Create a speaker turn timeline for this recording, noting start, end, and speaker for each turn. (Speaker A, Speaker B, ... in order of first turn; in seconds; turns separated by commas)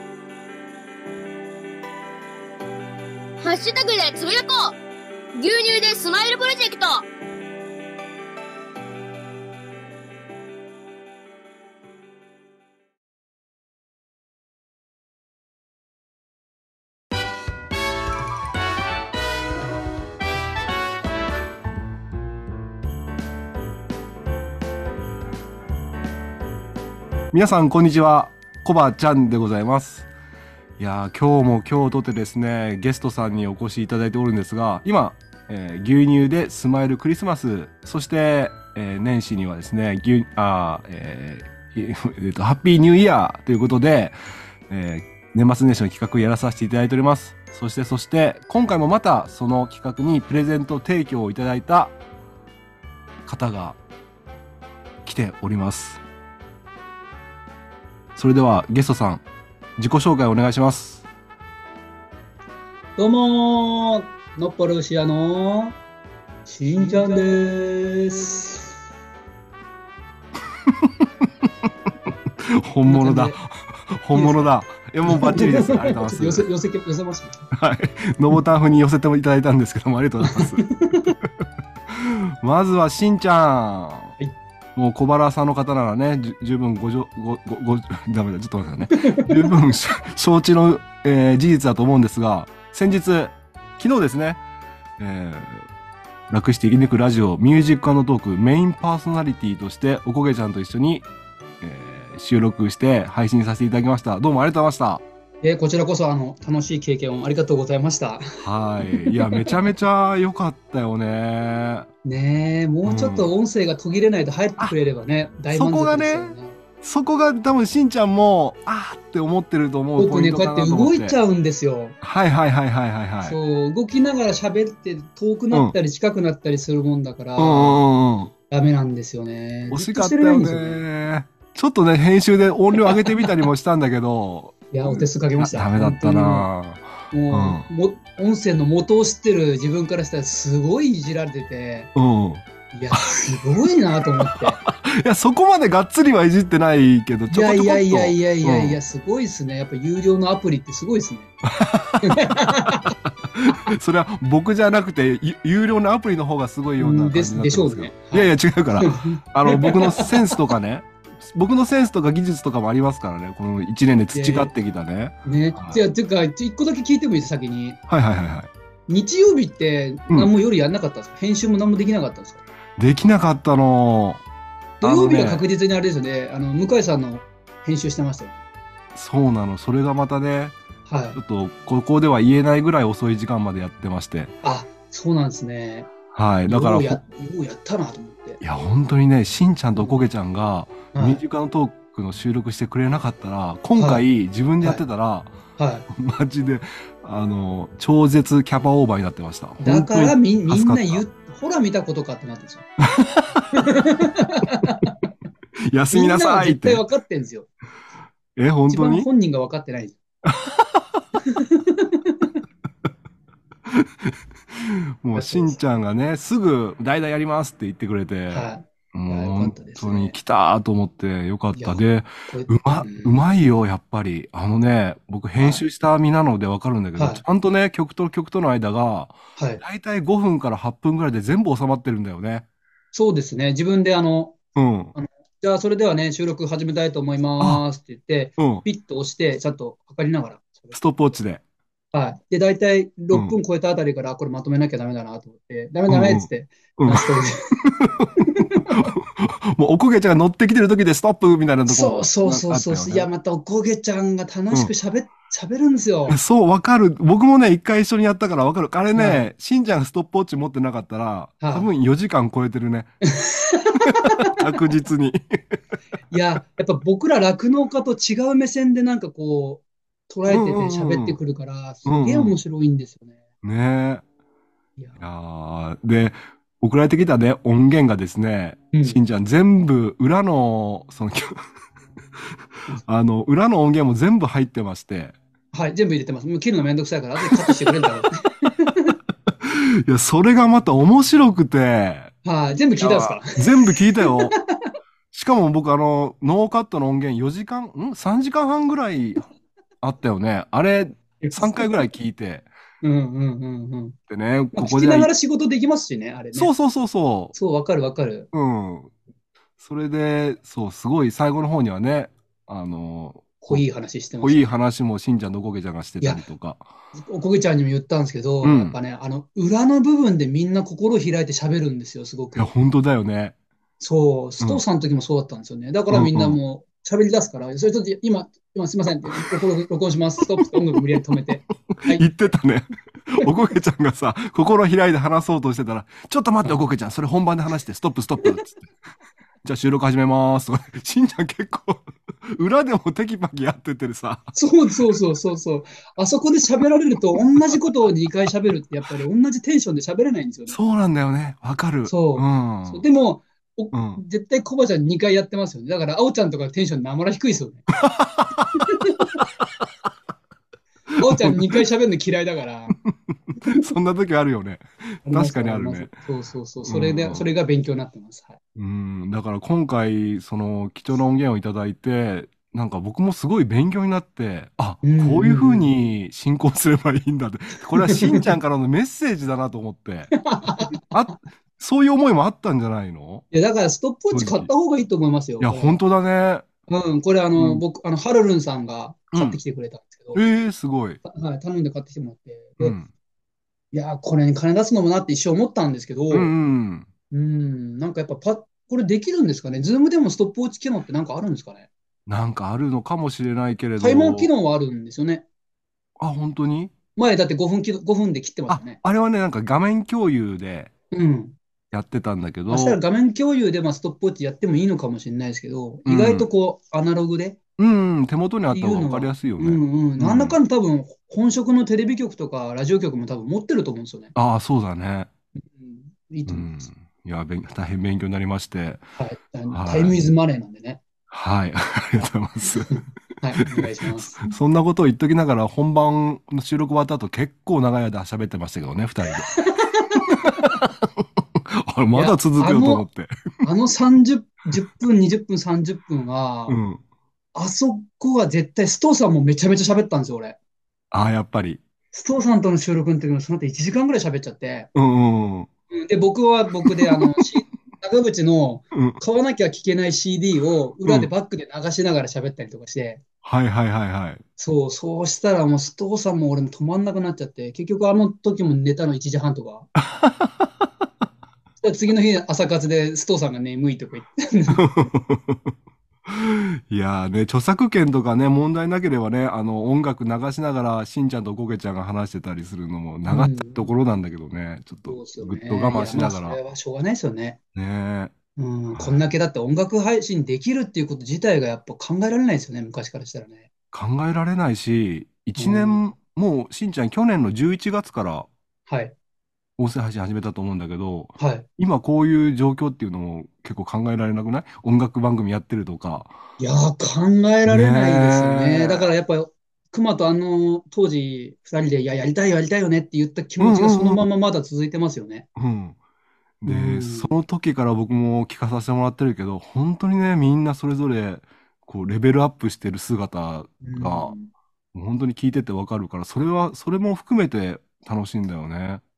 Speaker A: 3.4-4.8, Speaker A: 5.4-7.1, Speaker B: 27.3-30.1, Speaker B: 30.8-44.2, Speaker B: 44.7-52.0, Speaker B: 53.2-53.8, Speaker B: 55.0-56.0, Speaker B: 58.2-59.2, Speaker B: 59.8-61.0, Speaker C: 63.0-65.8, Speaker C: 66.5-68.7, Speaker B: 70.7-71.0, Speaker B: 72.5-76.5, Speaker C: 72.8-73.4, Speaker C: 74.1-74.5, Speaker C: 75.1-77.5, Speaker B: 77.5-81.3, Speaker C: 80.2-81.2, Speaker B: 81.9-84.2, Speaker B: 84.8-94.4, Speaker C: 88.9-89.5, Speaker B: 95.0-95.7, Speaker B: 96.3-101.1, Speaker B: 101.6-105.0, Speaker C: 105.4-108.2, Speaker B: 108.4-111.9, Speaker C: 108.9-109.5, Speaker C: 112.0-116.6, Speaker B: 112.8-113.3, Speaker B: 115.5-121.2, Speaker C: 120.0-122.0, Speaker B: 122.0-123.4, Speaker C: 123.2-127.9, Speaker B: 125.5-125.8, Speaker B: 127.4-128.3, Speaker C: 128.5-130.8, Speaker B: 129.7-137.7, Speaker C: 134.7-136.5, Speaker C: 137.1-141.9, Speaker B: 141.9-142.4, Speaker C: 142.7-144.6, Speaker B: 144.2-148.8, Speaker C: 147.3-151.3, Speaker B: 151.5-165.8, Speaker C: 152.0-153.0, Speaker C: 156.8-160.4, Speaker C: 164.1-164.5, Speaker C: 165.2-167.8, Speaker B: 167.9-168.5, Speaker C: 168.9-172.4, Speaker B: 172.8-174.2, Speaker C: 174.8-178.4, Speaker B: 174.8-175.4, Speaker B: 178.9-180.6, Speaker C: 180.9-181.2, Speaker B: 181.2-184.3, Speaker C: 184.4-185.9, Speaker B: 186.1-187.0, Speaker C: 186.4-188.4, Speaker B: 188.4-195.4, Speaker C: 190.9-191.2, Speaker C: 193.8-194.1, Speaker C: 195.6-195.9, Speaker B: 195.9-201.0, Speaker C: 199.6-202.7, Speaker B: 202.9-203.5, Speaker C: 203.6-204.9, Speaker B: 205.7-206.8, Speaker C: 205.9-207.5, Speaker B: 208.4-209.1, Speaker C: 208.7-210.0, Speaker B: 210.3-210.8, Speaker C: 211.3-212.3, Speaker B: 213.7-232.4, Speaker C: 215.2-215.6, Speaker C: 218.3-220.2, Speaker C: 221.6-223.2, Speaker C: 225.4-225.7, Speaker C: 227.0-227.2, Speaker C: 229.4-229.6, Speaker C: 232.9-234.4, Speaker B: 234.6-234.9, Speaker C: 234.9-240.8, Speaker B: 238.4-238.7, Speaker B: 240.7-241.4, Speaker C: 241.9-247.4, Speaker B: 243.1-243.4, Speaker B: 245.9-248.1, Speaker C: 248.2-248.9, Speaker B: 248.7-253.1, Speaker C: 251.7-256.2, Speaker B: 256.1-262.9, Speaker C: 258.9-259.2, Speaker C: 261.4-261.7, Speaker C: 263.2-264.4, Speaker B: 263.9-265.6, Speaker C: 266.1-273.2, Speaker B: 270.3-271.2, Speaker B: 271.9-272.4, Speaker B: 273.4-274.0, Speaker B: 275.0-281.4, Speaker C: 278.7-279.0, Speaker B: 282.8-285.1, Speaker C: 285.5-289.0, Speaker B: 289.3-292.1, Speaker C: 292.2-294.2, Speaker B: 292.8-294.4, Speaker B: 295.1-299.3, Speaker B: 299.8-302.5, Speaker C: 301.2-301.8, Speaker C: 302.8-304.0, Speaker B: 304.1-305.1, Speaker C: 304.5-306.5, Speaker B: 306.3-307.4, Speaker C: 307.3-308.3, Speaker B: 308.3-308.9, Speaker B: 309.6-313.6, Speaker C: 313.4-314.6, Speaker B: 314.2-316.7, Speaker C: 316.0-316.2, Speaker C: 316.9-322.5, Speaker B: 318.4-318.8, Speaker B: 322.4-323.4, Speaker C: 323.8-332.3, Speaker B: 325.9-326.4, Speaker B: 331.7-338.6, Speaker B: 339.4-344.3, Speaker C: 344.3-350.6, Speaker B: 350.5-352.9, Speaker C: 351.9-357.7, Speaker B: 353.7-354.0, Speaker B: 357.8-358.6, Speaker C: 358.6-359.2, Speaker B: 360.9-361.6, Speaker C: 361.0-362.8, Speaker B: 363.5-365.9, Speaker C: 365.1-368.4, Speaker B: 366.6-367.2, Speaker B: 368.6-380.2, Speaker C: 374.8-375.7, Speaker C: 377.8-378.2, Speaker C: 380.2-380.8, Speaker B: 380.8-383.2, Speaker C: 383.3-385.8, Speaker B: 384.1-384.5, Speaker B: 385.4-386.5, Speaker C: 386.7-390.2, Speaker B: 389.1-389.4, Speaker B: 390.1-391.0, Speaker C: 391.0-392.8, Speaker B: 392.6-392.9, Speaker C: 393.7-396.3, Speaker B: 396.1-396.9, Speaker C: 397.1-401.7, Speaker B: 402.1-404.3, Speaker C: 403.8-405.2, Speaker B: 406.0-406.7, Speaker C: 407.0-408.8, Speaker B: 408.5-410.7, Speaker C: 410.9-411.4, Speaker B: 411.7-412.8, Speaker C: 412.5-417.4, Speaker B: 415.9-416.3, Speaker B: 417.6-420.4, Speaker C: 418.5-424.1, Speaker B: 424.1-425.1, Speaker C: 425.4-426.7, Speaker B: 426.3-428.8, Speaker C: 429.0-430.8, Speaker B: 429.5-430.1, Speaker B: 431.1-432.7, Speaker C: 432.7-434.3, Speaker B: 433.4-439.3, Speaker C: 439.4-440.5, Speaker B: 440.0-443.1, Speaker C: 441.9-442.9, Speaker C: 443.4-446.6, Speaker B: 446.5-446.8, Speaker C: 447.4-450.4, Speaker B: 450.9-451.6, Speaker C: 451.9-454.7, Speaker B: 454.8-455.5, Speaker C: 455.7-463.0, Speaker B: 456.6-457.1, Speaker B: 458.7-459.0, Speaker B: 460.9-461.1, Speaker B: 463.2-464.2, Speaker C: 464.4-469.7, Speaker B: 470.0-470.3, Speaker C: 471.6-474.7, Speaker B: 474.6-475.5, Speaker B: 476.1-486.4, Speaker C: 483.1-483.7, Speaker C: 484.9-487.4, Speaker B: 487.6-488.1, Speaker C: 488.4-493.5, Speaker B: 488.7-489.0, Speaker B: 493.7-498.3, Speaker C: 495.4-495.8, Speaker C: 498.7-498.9, Speaker B: 499.6-506.2, Speaker C: 501.2-501.5, Speaker C: 506.4-515.3, Speaker B: 507.5-508.9, Speaker B: 513.4-514.0, Speaker B: 515.4-515.8, Speaker B: 516.4-524.2, Speaker C: 516.5-517.2, Speaker C: 523.6-524.3, Speaker B: 524.7-528.8